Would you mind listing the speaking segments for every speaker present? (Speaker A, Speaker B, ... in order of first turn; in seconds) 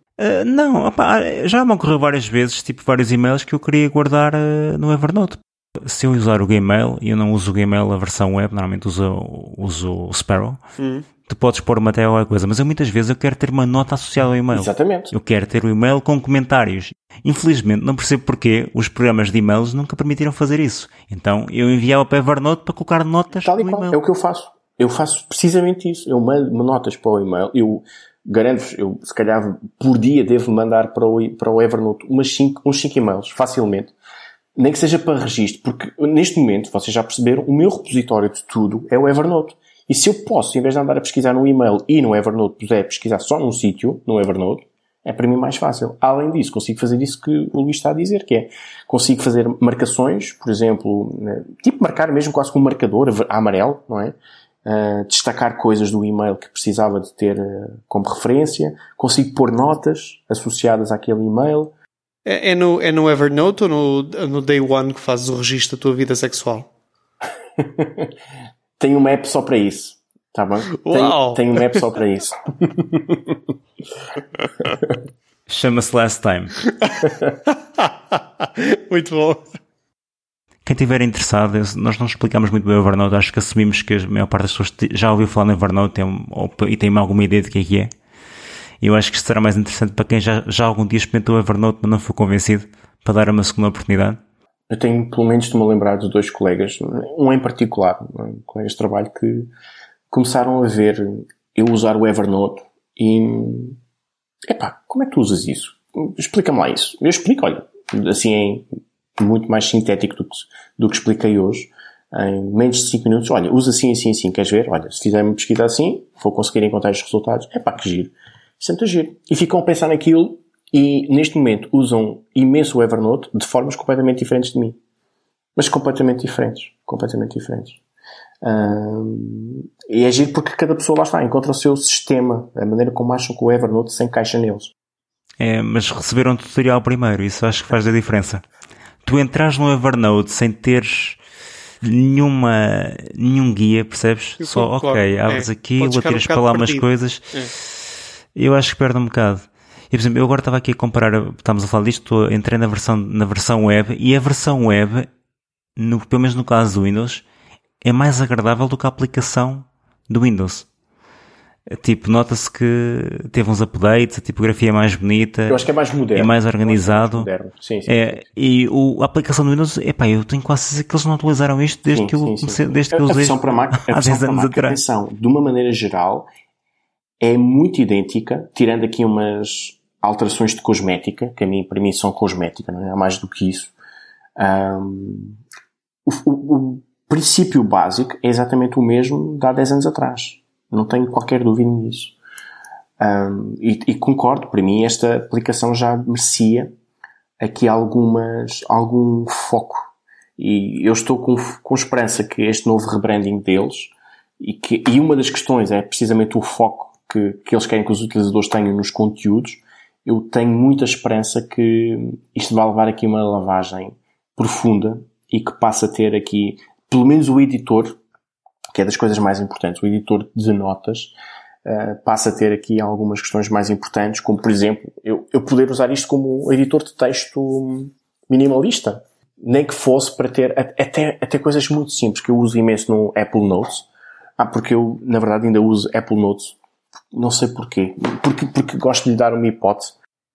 Speaker A: 0.2-10.6, 11.2-24.0, 75.5-76.5, 80.7-87.9, 88.8-94.2, 135.4-138.4, 139.0-141.2, 141.8-147.4, 148.3-155.1, 155.8-157.2, 157.8-160.7, 161.7-165.6, 166.1-167.3, 167.9-174.8
Speaker B: 10.8-11.1, 62.2-66.7, 70.7-71.8, 76.8-79.4, 144.4-147.5
Speaker C: 14.5-15.1, 23.4-33.9, 34.5-61.7, 67.6-68.1, 68.8-73.4, 94.7-99.5, 100.1-103.8, 104.5-108.7, 109.2-124.8, 125.5-127.8, 128.4-134.7, 165.5-168.3, 171.9-176.3, 177.2-183.7, 184.4-185.4, 186.1-192.1, 193.0-196.7, 197.4-218.0, 218.7-236.6, 237.1-239.9